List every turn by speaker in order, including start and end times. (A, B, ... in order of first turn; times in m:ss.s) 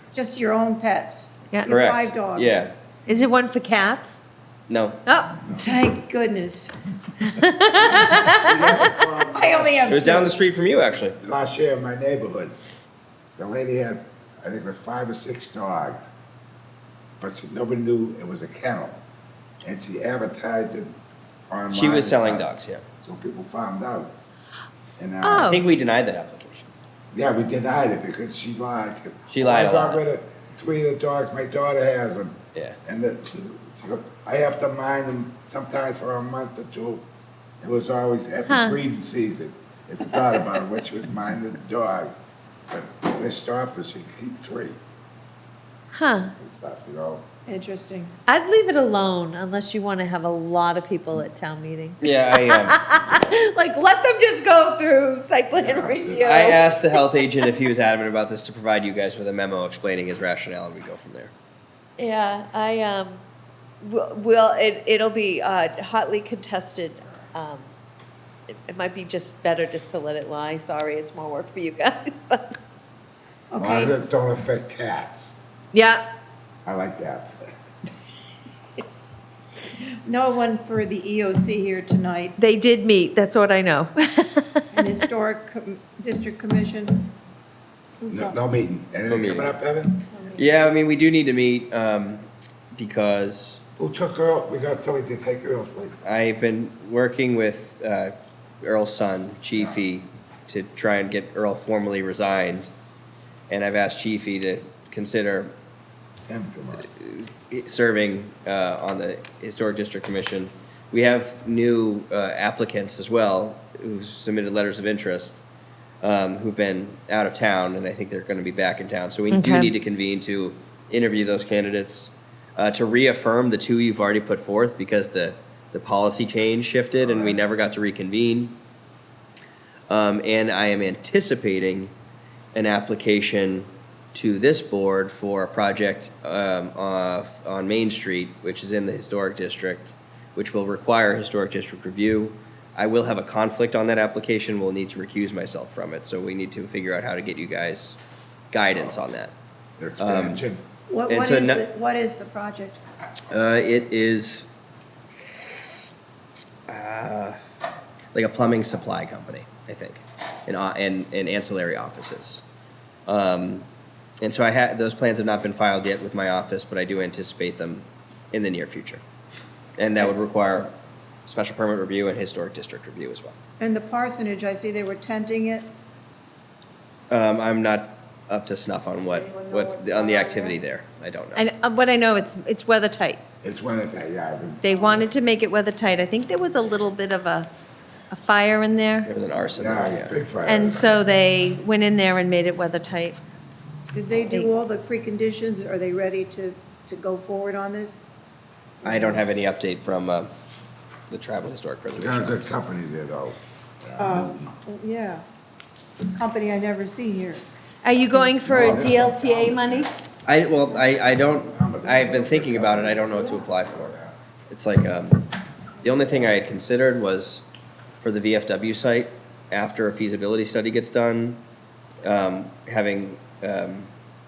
0:00.1-0:02.7 A
0:01.7-0:02.7 B
0:03.1-0:04.2 C
0:04.7-0:05.0 B
0:05.1-0:05.4 C
0:05.5-0:06.7 A
0:07.2-0:08.9 C
0:07.8-0:10.2 D
0:09.3-0:10.3 A
0:09.9-0:11.2 B
0:11.2-0:12.6 D
0:13.4-0:16.0 D
0:17.2-0:19.0 D
0:19.6-0:21.0 D
0:21.5-0:22.5 D
0:21.7-0:22.9 B
0:23.0-0:24.1 D
0:25.0-0:25.6 D
0:25.2-0:25.6 C
0:25.4-0:26.7 B
0:27.1-0:37.0 D
0:29.3-0:30.0 B
0:37.6-0:42.1 D
0:38.5-0:38.8 C
0:42.7-0:44.8 D
0:45.9-0:46.3 C
0:46.4-0:47.3 D
0:47.5-0:48.1 A
0:48.3-0:57.1 C
0:52.0-0:52.8 B
0:55.6-0:56.3 D
0:56.2-1:01.3 B
1:02.0-1:03.2 C
1:03.8-1:07.7 C
1:08.5-1:12.6 C
1:13.5-1:14.0 A
1:13.6-1:15.3 D
1:15.7-1:16.0 C
1:16.6-1:17.4 D
1:19.8-1:22.4 A
1:22.4-1:24.9 C
1:24.7-1:27.1 A
1:28.0-1:28.4 A
1:28.1-1:30.1 D
1:29.1-1:29.6 B
1:30.1-1:30.5 A
1:30.4-1:33.6 B
1:33.8-1:36.0 D
1:36.0-1:42.7 B
1:43.5-1:45.5 B
1:46.3-1:46.9 D
1:46.9-1:55.4 B
1:56.0-2:08.6 B
1:59.3-1:59.7 C
2:07.0-2:07.4 D
2:09.9-2:11.9 B
2:12.6-2:28.0 B
2:28.5-2:29.3 B
2:29.8-2:30.6 D
2:30.0-2:30.4 B
2:30.9-2:32.8 A
2:31.1-2:31.7 B
2:33.3-2:34.5 B
2:36.7-2:37.4 B
2:38.1-2:42.4 B
2:43.1-2:43.7 B
2:44.2-2:49.0 B
2:49.8-2:50.7 B
2:51.3-2:53.4 B
2:53.6-2:55.7 A
2:57.1-3:01.4 B
2:59.3-3:00.6 A
3:01.4-3:03.2 C
3:03.4-3:05.1 D
3:04.6-3:07.5 C
3:08.1-3:09.1 C
3:09.1-3:10.2 B
3:09.6-3:10.9 D
3:10.5-3:13.2 C
3:13.9-3:18.0 A
3:14.2-3:14.5 C
3:18.8-3:20.3 B
3:21.1-3:22.6 B
3:21.9-3:24.5 D
3:24.0-3:25.2 A
3:26.0-3:27.4 A
3:27.8-3:29.9 C
3:28.1-3:28.4 A
3:28.4-3:29.9 D
3:30.2-3:34.0 B
3:31.1-3:34.1 D
3:34.5-3:35.3 B
3:35.8-3:37.4 B
3:38.0-3:41.4 B
3:42.0-3:43.9 B